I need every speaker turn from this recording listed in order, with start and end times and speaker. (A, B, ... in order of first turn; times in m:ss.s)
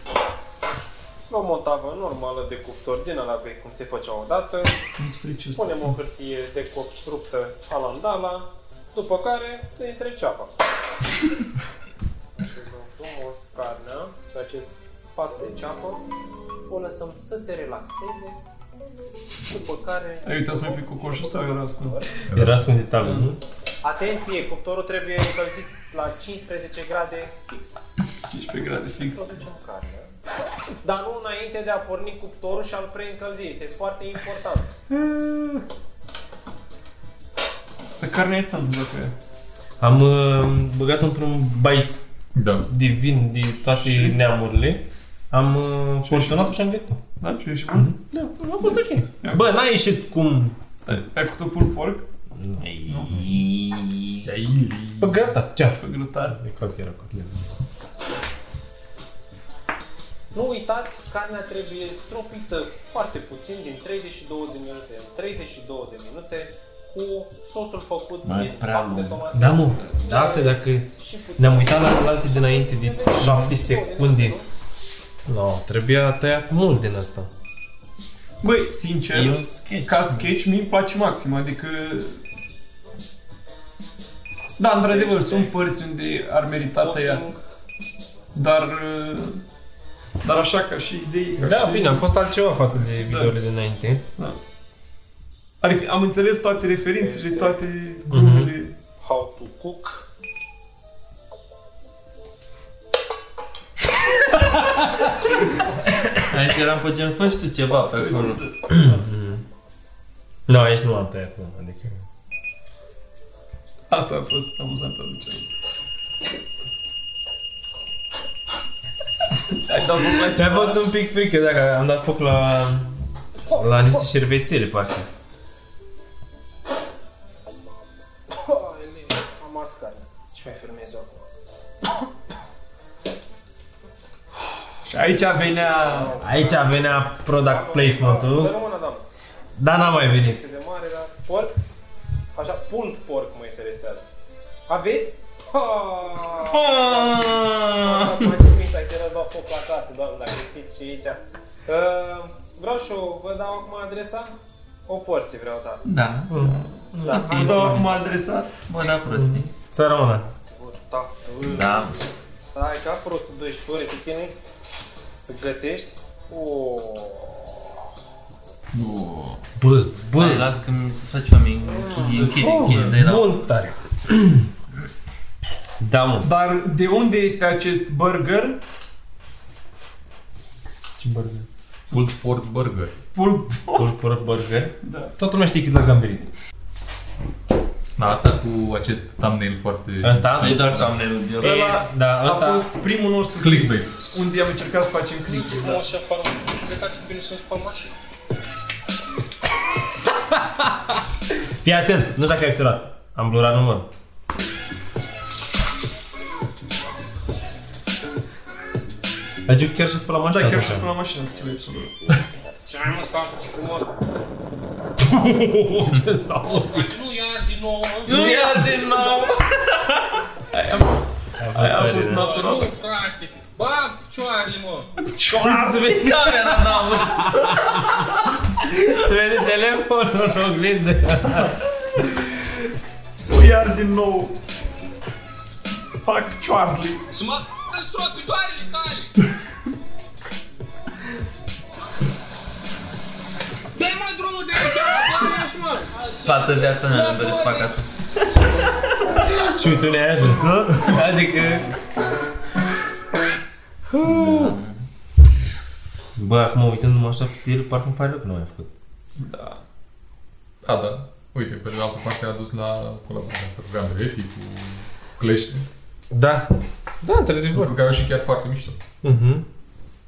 0:01.3-0:04.8 A
0:05.0-0:05.9 B
0:05.6-0:10.5 A
0:12.4-0:16.0 A
0:16.7-0:18.4 A
0:19.5-0:22.2 A
0:20.2-0:22.1 B
0:22.3-0:22.7 C
0:22.3-0:23.4 D
0:23.0-0:23.3 B
0:23.8-0:27.8 A
0:28.3-0:29.3 B
0:29.0-0:30.1 A
0:30.8-0:34.8 A
0:35.0-0:35.6 B
0:38.0-0:39.1 B
0:39.8-0:42.0 D
0:42.3-0:42.7 C
0:42.7-0:47.0 D
0:43.7-0:44.2 B
0:46.0-0:46.5 B
0:47.2-0:47.9 B
0:47.7-0:50.5 D
0:49.2-0:49.5 B
0:50.8-0:52.0 B
0:52.3-0:53.4 D
0:52.6-0:54.2 E
0:52.8-0:53.2 B
0:54.2-0:55.3 C
0:55.0-0:55.8 D
0:55.8-0:56.4 B
0:56.3-0:57.5 D
1:00.3-1:14.5 A
1:08.2-1:09.2 E
1:09.3-1:14.4 D
1:15.3-1:17.3 D
1:18.4-1:22.2 B
1:19.1-1:20.1 E
1:24.6-1:27.2 B
1:24.8-1:25.5 A
1:26.8-1:27.4 A
1:28.3-1:29.4 B
1:30.2-1:32.0 B
1:31.4-1:34.0 D
1:33.0-1:33.3 B
1:35.6-1:38.7 B
1:37.0-1:37.6 A
1:38.1-1:38.5 D
1:39.0-1:40.0 A
1:46.2-1:48.4 E
1:47.9-1:48.9 B
1:48.7-1:49.4 D
1:50.5-1:52.0 D
1:53.9-1:55.5 B
1:59.5-2:00.8 B
2:00.2-2:05.1 D
2:08.3-2:11.3 A
2:14.8-2:16.1 B
2:15.0-2:19.0 A
2:16.2-2:18.5 D
2:19.6-2:20.4 D
2:19.9-2:21.5 A
2:22.3-2:24.0 A
2:24.7-2:34.3 A
2:26.4-2:28.3 E
2:34.9-2:35.8 A
2:35.8-2:36.4 E
2:36.3-2:37.3 D
2:36.4-2:38.6 B
2:37.0-2:37.9 A
2:37.1-2:37.9 E
2:38.7-2:39.5 E
2:39.1-2:40.3 D
2:40.4-2:44.3 A
2:41.5-2:42.0 E
2:45.2-2:47.8 A
2:48.8-2:49.4 C
2:49.6-2:50.5 D
2:50.1-2:53.4 E
2:51.7-2:52.2 A
2:52.1-2:54.5 D
2:55.8-2:56.3 D
2:56.2-2:58.6 B
3:01.0-3:01.4 D
3:01.9-3:03.0 C
3:03.1-3:03.9 B
3:03.7-3:06.3 D
3:04.8-3:05.1 B
3:08.0-3:10.9 C
3:10.0-3:10.9 D
3:10.4-3:11.8 E
3:11.4-3:15.8 B
3:11.6-3:12.7 D
3:13.4-3:13.9 C
3:15.3-3:18.0 A
3:21.6-3:23.9 D
3:29.5-3:30.9 D
3:30.3-3:31.9 B
3:32.6-3:33.9 A
3:35.0-3:36.8 D
3:36.4-3:38.3 A
3:38.0-3:40.1 E
3:38.1-3:39.0 B
3:40.5-3:42.7 B
3:41.4-3:42.3 D
3:42.0-3:44.9 A
3:45.1-3:45.9 B
3:45.3-3:51.6 D
3:45.9-3:47.8 E
3:53.3-3:54.4 B
3:56.0-3:57.0 B
3:57.1-3:59.1 A
4:03.7-4:07.7 A
4:06.2-4:07.9 E
4:09.4-4:11.7 D
4:13.9-4:14.6 D
4:14.0-4:14.8 E
4:16.2-4:18.7 D
4:19.2-4:19.6 B
4:20.6-4:25.7 C
4:26.1-4:27.8 D
4:27.5-4:28.8 C
4:29.0-4:29.4 D